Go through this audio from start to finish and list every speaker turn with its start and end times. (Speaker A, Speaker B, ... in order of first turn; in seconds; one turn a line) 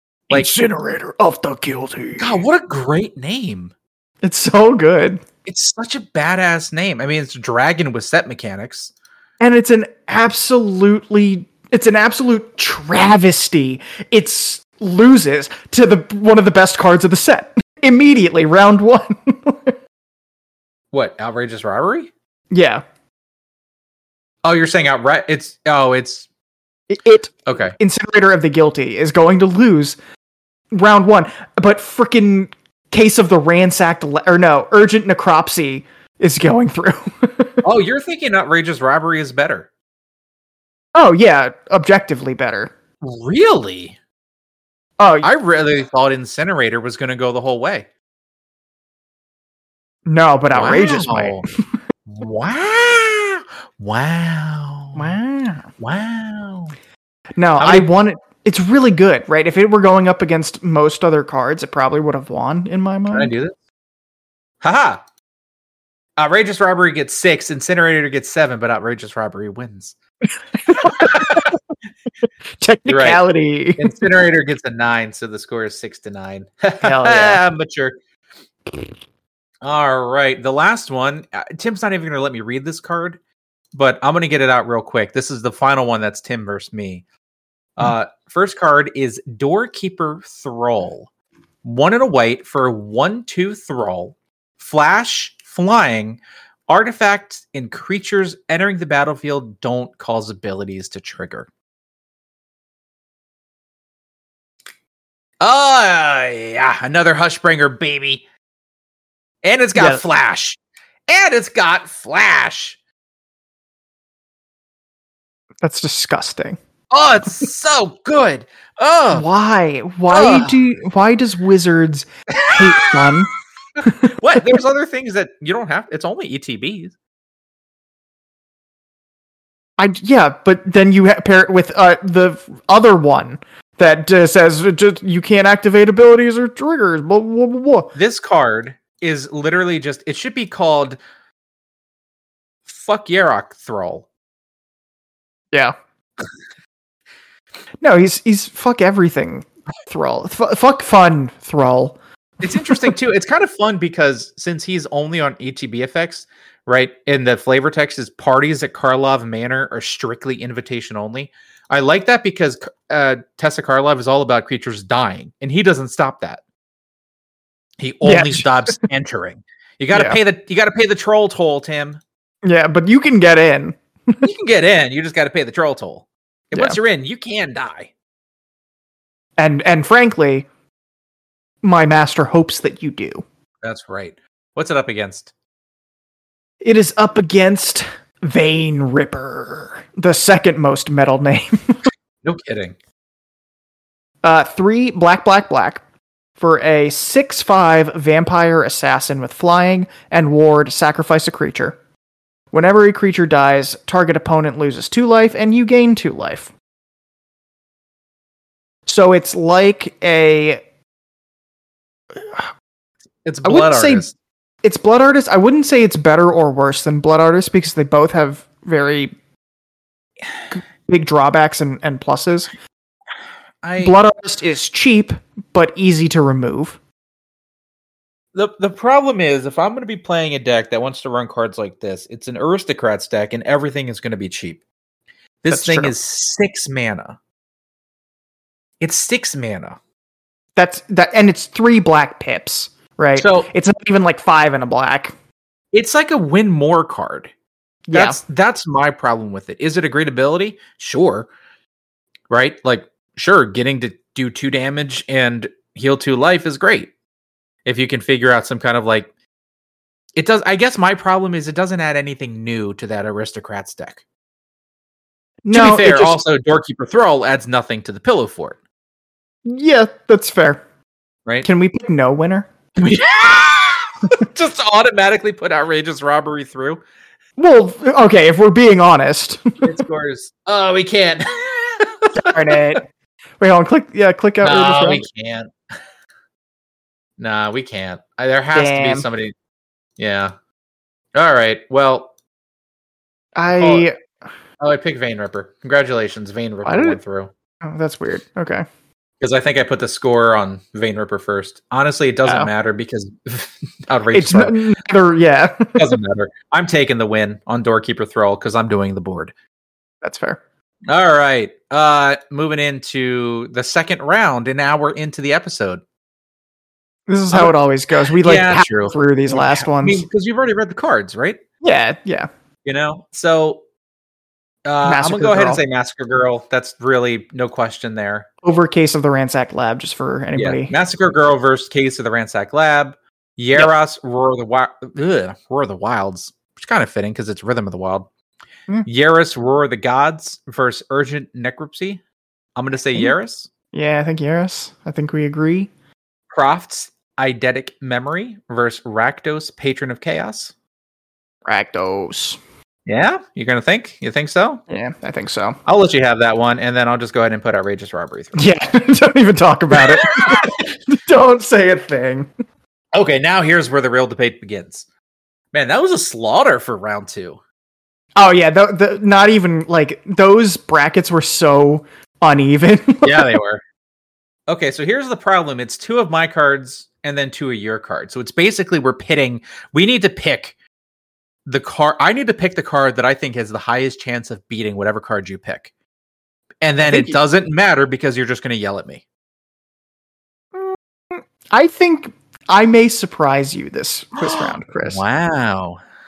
Speaker A: 0.3-2.4
Speaker B: 2.2-3.7
Speaker A: 4.2-5.2
Speaker B: 5.5-8.9
Speaker A: 9.4-19.8
Speaker B: 20.9-22.1
Speaker A: 22.5-22.8
Speaker B: 24.4-26.3
Speaker A: 26.9-30.0
Speaker B: 27.5-27.8
Speaker A: 30.7-37.6
Speaker B: 37.6-39.7
Speaker A: 40.9-42.7
Speaker B: 43.0-44.0
Speaker A: 45.0-45.3
Speaker B: 45.2-47.9
Speaker A: 50.1-51.4
Speaker B: 50.5-51.4
Speaker B: 52.1-55.2
Speaker A: 54.9-55.7
Speaker B: 55.8-56.7
Speaker A: 57.4-63.3
Speaker B: 57.6-57.9
Speaker B: 63.1-63.6
Speaker B: 64.6-65.0
Speaker B: 66.2-69.9
Speaker A: 70.5-71.6
Speaker B: 70.7-71.5
Speaker A: 72.6-74.0
Speaker B: 72.9-73.2
Speaker B: 73.8-78.0
Speaker A: 76.8-77.4
Speaker B: 79.6-83.2
Speaker B: 83.7-87.0
Speaker B: 87.8-91.1
Speaker B: 91.6-101.5
Speaker B: 105.4-108.2
Speaker B: 109.4-112.8
Speaker A: 109.7-110.0
Speaker A: 115.6-116.6
Speaker B: 116.9-119.3
Speaker A: 119.1-123.3
Speaker B: 120.1-120.7
Speaker B: 122.3-123.2
Speaker A: 123.8-124.4
Speaker B: 124.2-126.9
Speaker A: 129.8-137.9
Speaker B: 137.9-141.0
Speaker B: 142.7-144.1
Speaker A: 147.8-152.9
Speaker B: 152.4-166.4
Speaker B: 167.8-172.0
Speaker A: 168.0-168.8
Speaker A: 169.9-170.2
Speaker A: 172.4-174.3
Speaker B: 174.2-177.9
Speaker A: 176.5-176.8
Speaker A: 179.4-180.5
Speaker A: 181.6-183.2
Speaker B: 183.6-185.3
Speaker A: 186.6-191.9
Speaker B: 192.2-192.8
Speaker A: 194.2-195.8
Speaker A: 196.4-201.8
Speaker A: 202.5-206.5
Speaker A: 208.9-210.6
Speaker A: 212.2-212.5
Speaker B: 213.2-214.1
Speaker A: 213.4-214.1
Speaker A: 214.6-219.1
Speaker A: 220.5-222.5
Speaker B: 223.6-224.0
Speaker A: 223.8-226.8
Speaker B: 228.3-234.6
Speaker B: 235.4-237.2
Speaker A: 235.5-235.9
Speaker B: 238.8-239.8
Speaker A: 240.6-245.1
Speaker B: 243.2-243.5
Speaker B: 245.7-247.3
Speaker A: 247.9-248.2
Speaker B: 247.9-251.3
Speaker B: 252.3-256.9
Speaker B: 257.6-259.1
Speaker B: 260.1-264.0
Speaker A: 265.4-266.2
Speaker B: 265.5-268.6
Speaker A: 269.4-270.6
Speaker A: 271.4-272.5
Speaker B: 272.8-276.8
Speaker A: 277.4-279.7
Speaker B: 279.6-282.8
Speaker A: 282.1-282.8
Speaker A: 283.4-285.1
Speaker B: 284.4-285.5
Speaker B: 287.2-289.3
Speaker A: 288.5-289.1
Speaker B: 290.0-290.3
Speaker B: 291.1-292.1
Speaker A: 293.4-293.9
Speaker B: 293.6-293.9
Speaker B: 294.6-297.3
Speaker A: 296.6-297.0
Speaker A: 297.6-298.6
Speaker B: 299.2-304.6
Speaker A: 304.1-305.8
Speaker B: 305.8-309.3
Speaker A: 310.0-310.4
Speaker B: 310.9-315.8
Speaker A: 317.1-320.1
Speaker B: 318.1-321.4
Speaker A: 321.6-322.3
Speaker B: 322.6-323.6
Speaker B: 324.6-328.3
Speaker A: 324.8-325.6
Speaker A: 328.4-330.7
Speaker B: 330.4-338.1
Speaker B: 338.9-342.0
Speaker B: 342.6-343.5
Speaker A: 343.7-345.7
Speaker B: 346.3-350.5
Speaker A: 351.4-352.4
Speaker B: 352.9-354.6
Speaker A: 354.7-355.6
Speaker B: 355.6-358.4
Speaker A: 358.4-362.3
Speaker B: 359.7-360.5
Speaker B: 362.9-364.9
Speaker B: 365.5-367.4
Speaker A: 368.1-373.4
Speaker B: 373.0-373.6
Speaker B: 374.5-380.6
Speaker B: 381.4-385.7
Speaker B: 386.6-389.0
Speaker A: 386.8-387.2
Speaker A: 390.6-395.0
Speaker B: 394.2-395.8